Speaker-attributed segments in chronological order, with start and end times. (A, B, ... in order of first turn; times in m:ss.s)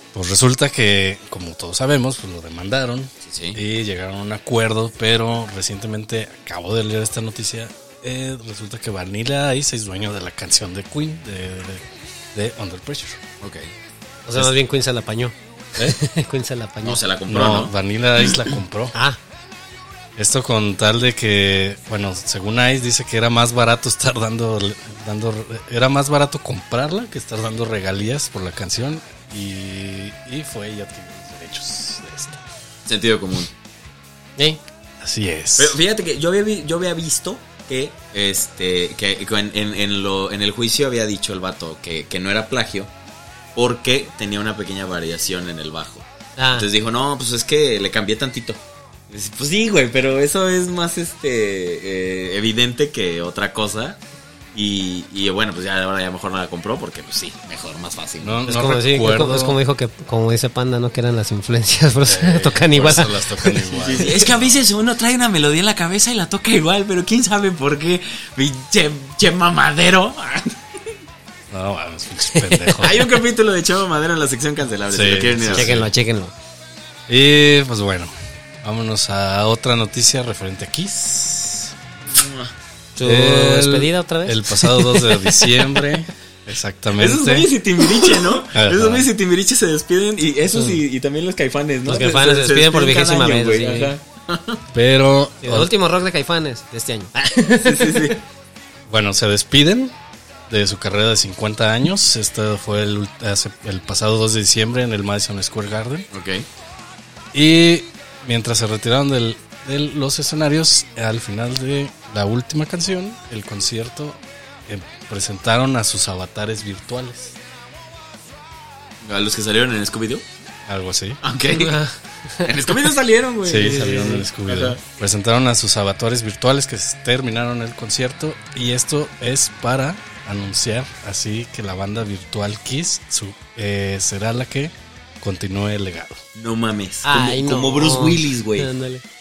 0:00.1-0:13.2 A
0:03.2-0:03.6 B
0:13.4-0:13.7 B
0:14.3-0:17.0 C
0:16.8-0:18.5 B
0:17.3-0:19.0 A
0:18.9-0:19.2 C
0:20.2-0:32.5 A
0:32.9-0:33.5 B
0:35.0-0:35.8 A
0:35.6-0:42.9 B
0:43.6-0:54.0 B
0:46.4-0:46.7 C
0:54.5-0:58.4 B
0:58.2-0:59.6 A
0:58.5-1:04.2 C
1:02.0-1:04.6 A
1:03.7-1:10.6 B
1:11.5-1:13.1 A
1:12.2-1:13.1 C
1:12.8-1:15.8 B
1:14.9-1:15.9 A
1:15.5-1:16.3 C
1:17.1-1:21.8 A
1:22.1-1:22.5 B
1:23.0-1:25.7 C
1:23.0-1:27.5 A
1:27.0-1:34.6 B
1:28.5-1:29.1 A
1:30.5-1:30.8 C
1:31.9-1:34.0 C
1:34.7-1:35.7 A
1:35.4-1:38.2 C
1:37.6-1:38.2 B
1:38.9-1:40.0 A
1:40.5-1:46.1 A
1:46.1-1:46.5 B
1:47.3-1:57.4 A
1:59.0-2:00.2 B
2:00.7-2:01.2 A
2:01.2-2:01.8 B
2:01.5-2:02.8 C
2:02.4-2:04.8 B
2:03.4-2:16.2 A
2:16.4-2:18.7 B
2:17.0-2:19.0 C